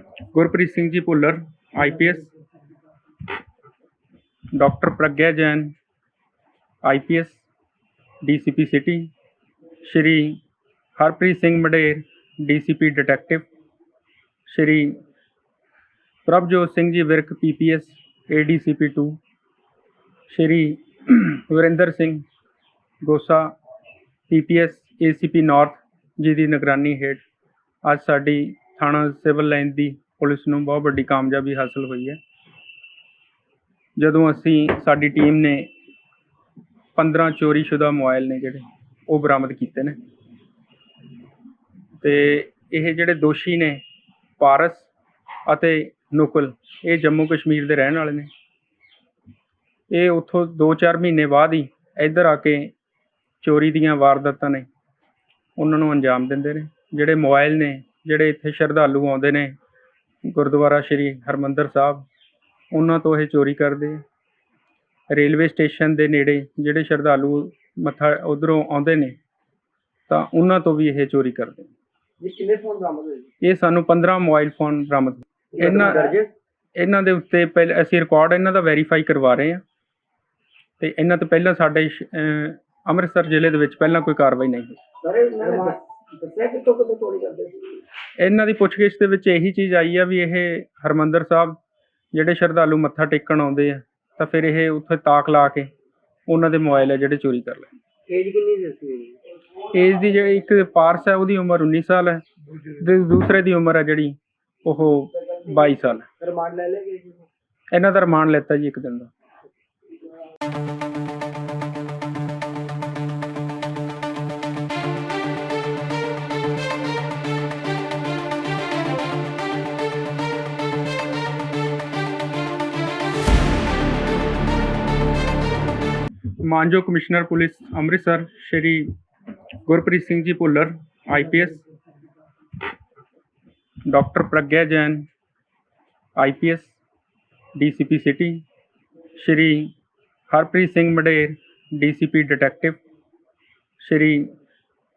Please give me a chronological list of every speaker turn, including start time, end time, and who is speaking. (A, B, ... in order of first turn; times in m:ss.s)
0:00.3-0:02.3 A
0:04.5-0:05.8 A
0:06.8-0:07.4 A
0:08.2-0:09.1 A
0:09.8-0:10.4 A
0:11.0-0:13.4 A
0:14.5-0:15.0 A
0:16.2-0:19.2 A
0:20.3-0:22.2 A
0:23.0-0:23.5 A
0:24.3-0:27.2 A
0:27.8-0:32.2 A
0:34.0-0:35.7 A
0:37.0-0:40.0 A
0:42.0-0:43.8 A
0:44.4-0:44.9 A
0:45.5-0:48.3 A
0:49.9-0:52.7 A
0:53.4-0:54.7 A
0:55.6-0:59.6 A
1:00.2-1:02.1 A
1:02.7-1:04.0 A
1:05.1-1:09.2 A
1:10.1-1:11.7 A
1:12.2-1:13.3 B
1:13.4-1:16.2 A
1:15.6-1:16.3 B
1:16.8-1:19.6 A
1:20.8-1:24.8 A
1:25.0-1:27.8 B
1:28.2-1:31.6 A
1:32.1-1:35.7 A
1:36.3-1:37.7 A
1:38.1-1:39.2 B
1:39.7-1:46.0 A
1:46.2-1:47.3 B
1:47.7-1:49.1 A
2:06.4-2:08.9 A
2:09.7-2:11.6 A
2:13.8-2:15.1 A
2:16.2-2:16.8 A
2:17.6-2:18.4 A
2:19.2-2:19.7 A
2:20.3-2:22.8 A
2:23.8-2:24.3 A